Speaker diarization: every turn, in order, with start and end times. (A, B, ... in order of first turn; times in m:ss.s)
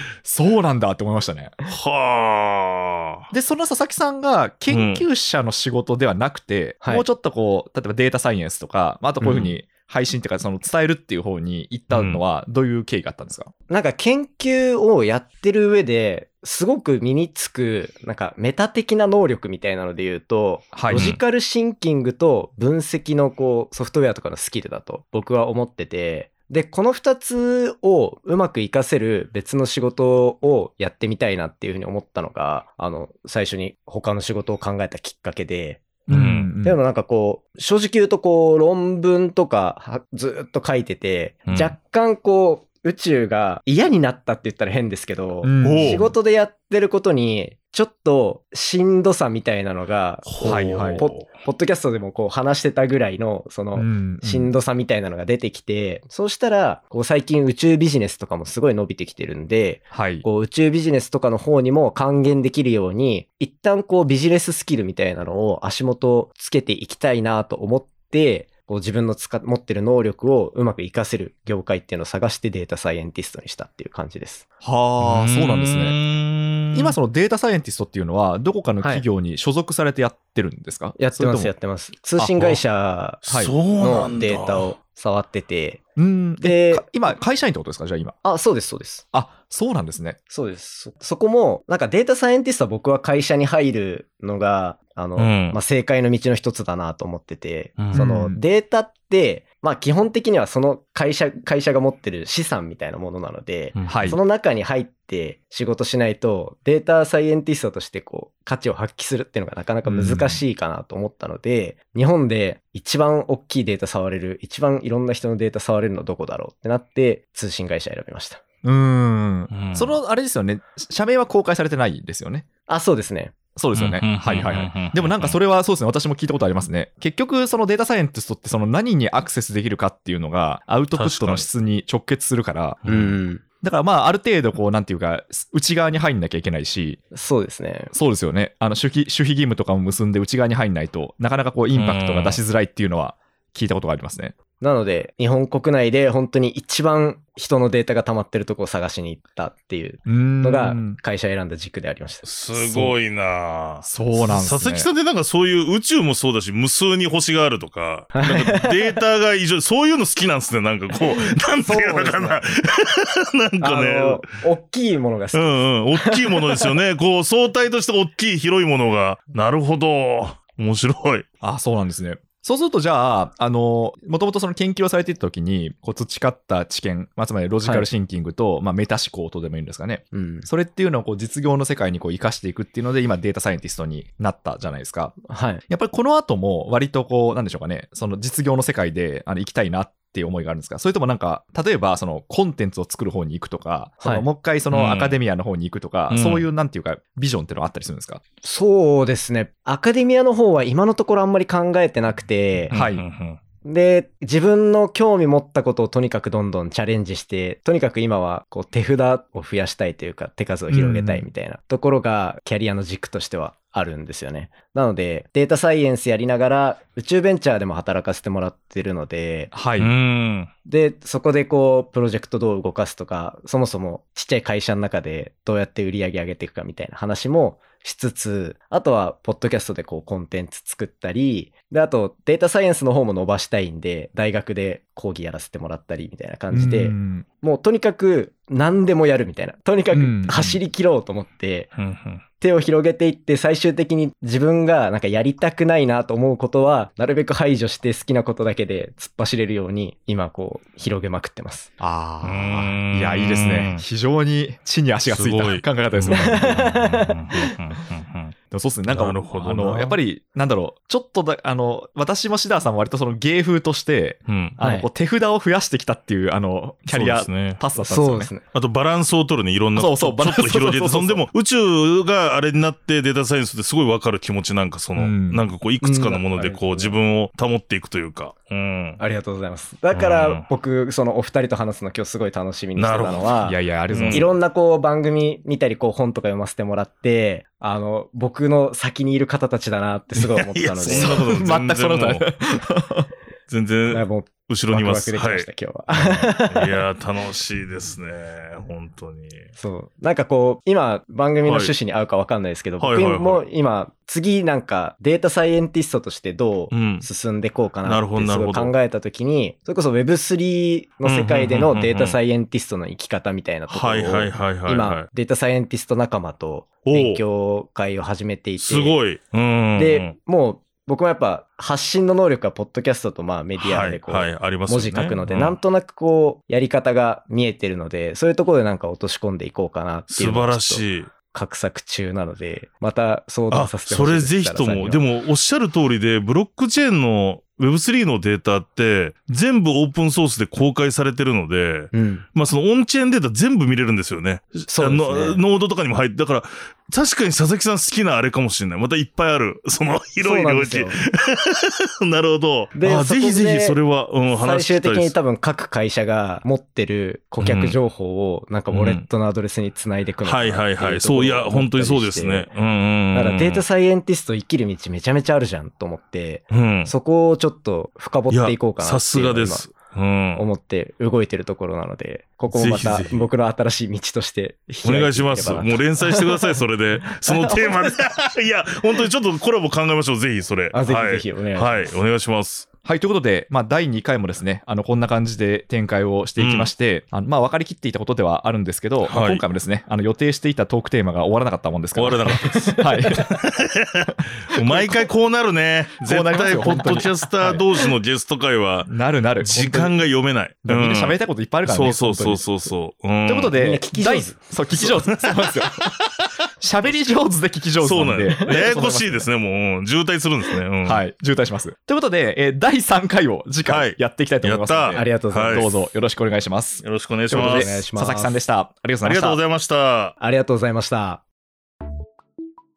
0:00.2-0:01.6 A
0:01.7-0:03.2 B
0:03.3-0:13.5 A
0:04.7-0:05.1 B
0:09.2-0:09.6 B
0:11.9-0:12.2 B
0:13.7-0:35.9 C
0:20.7-0:21.2 A
0:20.9-0:21.2 B
0:36.1-0:36.8 A
0:36.1-0:36.5 B
0:36.6-1:14.4 C
0:41.5-0:41.7 B
0:45.4-0:46.1 A
0:45.6-0:46.1 B
0:50.2-0:51.3 B
0:50.4-0:51.1 A
0:53.8-0:54.5 A
0:59.9-1:00.3 A
1:14.6-1:16.0 A
1:15.0-1:17.0 B
1:16.7-1:21.5 A
1:18.8-1:19.1 C
1:21.0-1:25.8 C
1:22.2-1:22.6 A
1:23.2-1:24.7 B
1:23.3-1:23.6 A
1:26.0-1:28.2 A
1:26.4-1:26.9 C
1:28.2-1:29.0 C
1:29.1-1:30.2 A
1:30.3-1:58.4 C
1:35.2-1:35.6 B
1:37.8-1:38.0 B
1:37.9-1:38.4 A
1:43.7-1:44.0 B
1:43.9-1:44.2 A
1:49.8-1:50.4 A
1:58.6-2:02.5 A
1:59.5-2:00.0 B
2:02.7-2:03.4 C
2:03.6-2:12.8 A
2:03.8-2:05.4 B
2:10.9-2:11.5 B
2:12.8-2:13.2 B
2:12.9-2:13.4 C
2:13.6-2:17.0 A
2:17.1-2:17.9 C
2:17.9-2:24.4 A
2:21.7-2:22.4 B
2:24.6-2:32.2 C
2:30.1-2:31.0 A
2:32.2-2:44.3 B
2:32.6-2:33.0 A
2:33.8-2:34.9 A
2:38.1-2:39.0 C
2:41.0-2:42.4 C
2:43.6-2:46.7 C
2:45.3-2:51.2 B
2:51.4-3:18.2 A
3:00.1-3:00.5 C
3:05.3-3:05.6 C
3:14.0-3:14.3 C
3:14.7-3:15.2 B
3:16.1-3:16.5 B
3:18.4-3:22.7 C
3:22.7-3:23.4 B
3:22.7-3:23.0 A
3:23.6-3:39.5 C
3:30.7-3:31.1 A
3:30.9-3:31.2 B
3:39.5-3:39.9 A
3:39.8-3:40.5 B
3:40.6-4:01.7 C
3:56.5-3:57.3 A
3:59.9-4:00.6 A
4:01.8-4:02.2 B
4:02.4-4:11.7 C
4:11.8-4:16.6 A
4:12.2-4:13.8 B
4:15.0-4:18.3 B
4:16.1-4:17.5 C
4:18.5-4:28.3 A
4:18.9-4:20.0 B
4:24.3-4:24.6 B
4:24.6-4:24.9 C
4:26.9-4:27.6 B
4:27.8-4:28.4 C
4:28.5-4:39.0 B
4:29.8-4:31.2 A
4:35.0-4:35.5 A
4:35.8-4:37.0 C
4:39.0-4:43.6 C
4:39.9-4:40.5 B
4:42.8-4:43.3 B
4:43.4-4:44.3 A
4:43.9-4:44.3 B
4:44.1-4:51.3 C
4:50.2-4:52.3 B
4:50.8-4:53.1 A
4:53.5-4:59.5 B
4:53.9-4:56.8 C
4:59.6-5:19.0 C
5:01.4-5:01.7 B
5:02.8-5:03.4 B
5:06.7-5:07.1 B
5:07.8-5:08.7 B
5:11.0-5:12.2 B
5:13.7-5:15.1 B
5:16.8-5:17.2 B
5:18.6-5:20.1 B
5:19.8-5:35.1 C
5:23.6-5:25.6 B
5:30.1-5:31.1 B
5:33.5-5:55.2 B
5:41.9-5:42.3 C
5:44.7-5:45.4 C
5:50.2-5:51.0 C
5:52.7-6:02.5 C
5:57.4-5:57.8 B
5:58.7-5:59.1 B
6:00.2-6:03.6 B
6:03.1-6:09.7 C
6:06.5-6:06.9 B
6:08.3-6:10.4 B
6:10.4-6:16.5 C
6:12.5-6:13.3 B
6:14.8-6:22.7 B
6:17.3-6:18.0 C
6:20.7-6:22.0 C
6:22.8-6:33.4 A
6:26.4-6:26.7 B
6:29.0-6:29.4 B
6:32.0-6:43.6 B
6:32.2-6:33.1 C
6:34.6-6:35.1 A
6:36.0-6:37.6 A
6:38.9-6:40.0 A
6:40.6-6:42.7 A
6:43.2-6:45.9 A
6:43.6-6:44.5 C
6:44.7-6:45.5 B
6:46.6-6:49.3 A
6:47.8-6:51.0 B
6:50.8-6:59.4 A
6:53.6-6:55.7 B
6:54.9-6:55.8 C
6:56.8-6:57.8 B
6:57.3-6:58.4 C
6:59.0-7:00.2 B
7:00.2-7:01.2 C